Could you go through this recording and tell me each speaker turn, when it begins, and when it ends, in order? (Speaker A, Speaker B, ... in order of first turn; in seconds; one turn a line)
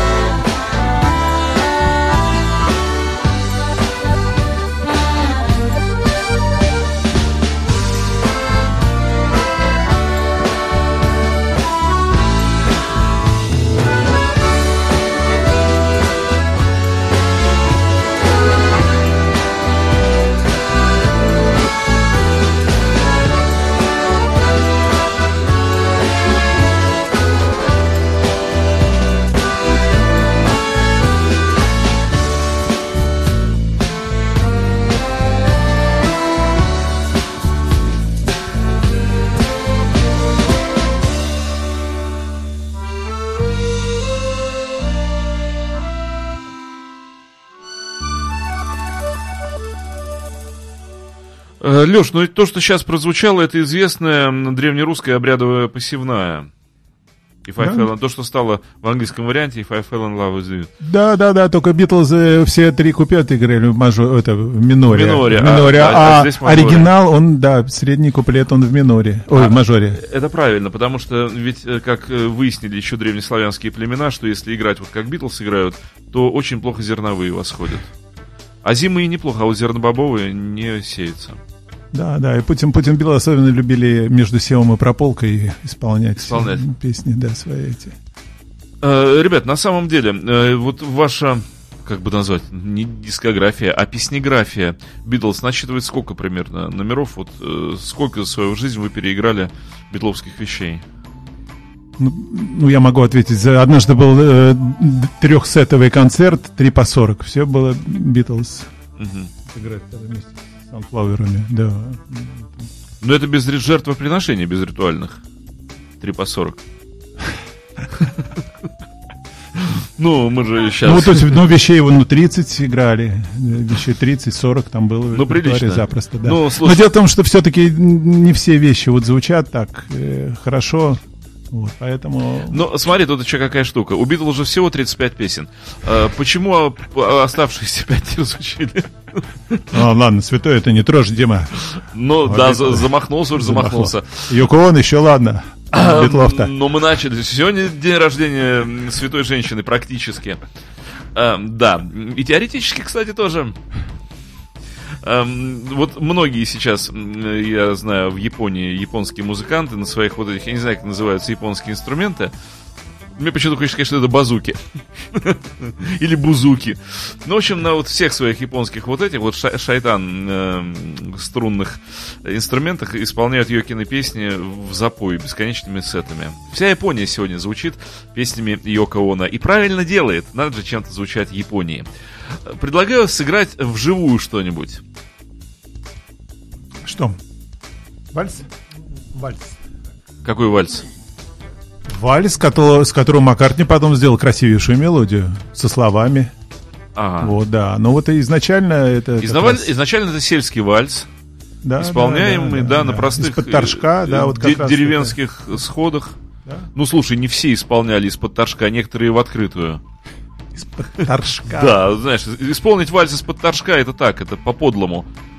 Speaker A: 51.6-56.5
Speaker A: 57.5-60.7
Speaker B: 57.6-57.9
Speaker B: 60.8-70.0
Speaker A: 64.9-66.9
Speaker A: 69.3-77.9
Speaker A: 78.6-81.4
Speaker B: 81.9-88.0
Speaker A: 86.2-86.7
Speaker A: 88.8-100.8
Speaker B: 102.0-108.7
Speaker A: 109.0-109.3
Speaker B: 109.5-112.7
Speaker A: 113.0-115.2
Speaker A: 116.0-116.6
Speaker A: 118.0-118.3
Speaker A: 119.6-121.4
Speaker B: 120.8-132.6
Speaker A: 125.1-126.8
Speaker A: 132.5-139.7
Speaker B: 139.7-141.6
Speaker A: 141.6-144.3
Speaker B: 142.2-146.5
Speaker A: 145.7-150.4
Speaker A: 151.1-153.6
Speaker A: 155.0-162.3
Speaker A: 163.2-164.6
Speaker A: 165.1-184.8
Speaker B: 186.8-187.2
Speaker B: 188.1-188.5
Speaker B: 189.1-189.6
Speaker A: 190.2-190.8
Speaker B: 191.9-196.3
Speaker A: 197.0-197.4
Speaker B: 197.2-199.7
Speaker A: 199.2-201.1
Speaker B: 201.6-205.2
Speaker A: 201.8-206.2
Speaker A: 206.8-209.8
Speaker B: 210.5-211.8
Speaker A: 211.0-215.1